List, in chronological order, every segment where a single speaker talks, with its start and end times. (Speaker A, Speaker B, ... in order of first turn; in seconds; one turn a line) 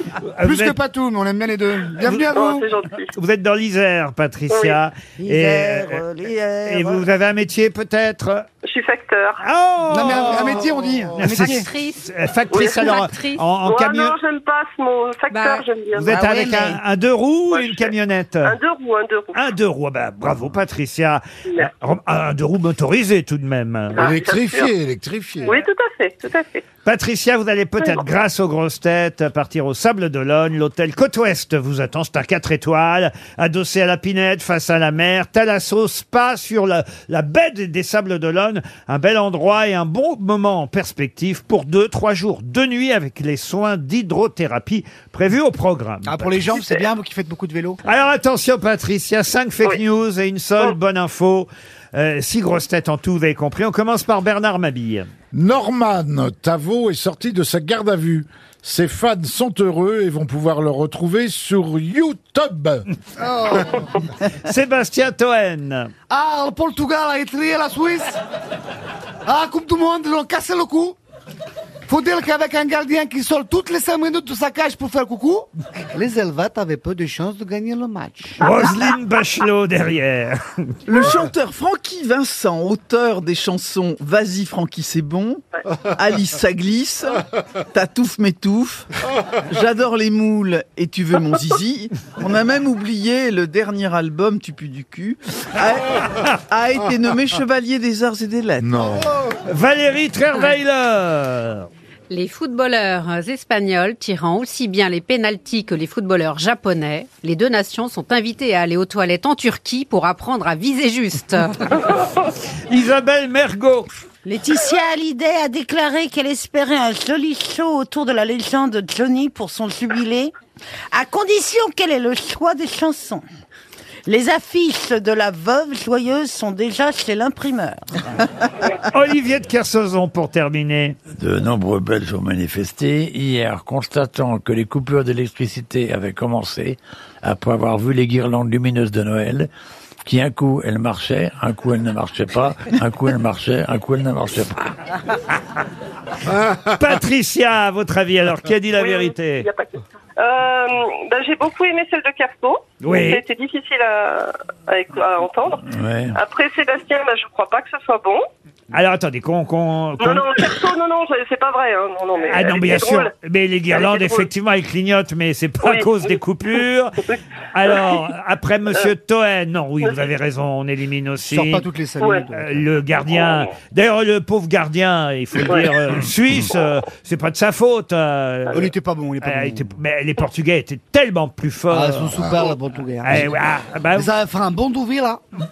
Speaker A: 0.2-0.8
Speaker B: 0.4-2.7
Speaker C: 2.3-3.1
Speaker A: 3.1-6.0
Speaker C: 4.5-4.8
Speaker D: 5.2-7.1
Speaker A: 6.6-8.4
Speaker C: 8.6-9.4
Speaker A: 9.4-14.2
Speaker B: 9.9-11.7
Speaker E: 11.3-12.0
Speaker C: 12.5-13.0
Speaker E: 12.7-13.4
Speaker C: 13.6-16.1
Speaker E: 15.3-15.7
Speaker A: 15.9-18.6
Speaker D: 16.0-16.8
Speaker C: 17.5-17.9
Speaker C: 18.4-19.4
Speaker A: 19.3-24.1
Speaker C: 23.9-24.7
Speaker F: 23.9-25.6
Speaker C: 25.4-26.6
Speaker A: 26.8-46.4
Speaker B: 46.0-47.8
Speaker A: 47.8-55.1
Speaker F: 55.3-62.8
Speaker B: 63.2-63.9
Speaker A: 64.4-65.9
Speaker B: 66.1-68.2
Speaker B: 69.2-71.0
Speaker B: 71.9-78.3
Speaker A: 78.4-80.7
Speaker G: 80.8-85.4
Speaker G: 85.9-87.2
Speaker G: 87.7-88.9
Speaker G: 89.5-96.0
Speaker G: 96.5-99.0
Speaker F: 98.6-99.1
Speaker A: 99.5-101.7
Speaker E: 102.1-111.7
Speaker A: 112.7-113.9
Speaker D: 114.2-120.3
Speaker D: 120.9-123.2
Speaker D: 124.0-127.8
Speaker A: 128.9-131.0
Speaker H: 131.2-139.5
Speaker H: 140.0-144.7
Speaker F: 146.3-146.6
Speaker A: 146.7-149.5
Speaker C: 148.8-158.2
Speaker A: 152.8-153.2
Speaker H: 155.7-156.2
Speaker A: 158.7-160.3
Speaker C: 160.0-163.1
Speaker A: 162.3-167.0
Speaker C: 163.7-164.3
Speaker C: 165.6-166.1
Speaker C: 167.1-168.0
Speaker A: 167.5-171.7
Speaker C: 169.8-170.1
Speaker B: 171.3-172.6
Speaker A: 172.3-182.3
Speaker B: 178.5-179.7
Speaker B: 181.7-183.3
Speaker A: 183.0-184.1
Speaker B: 183.9-185.2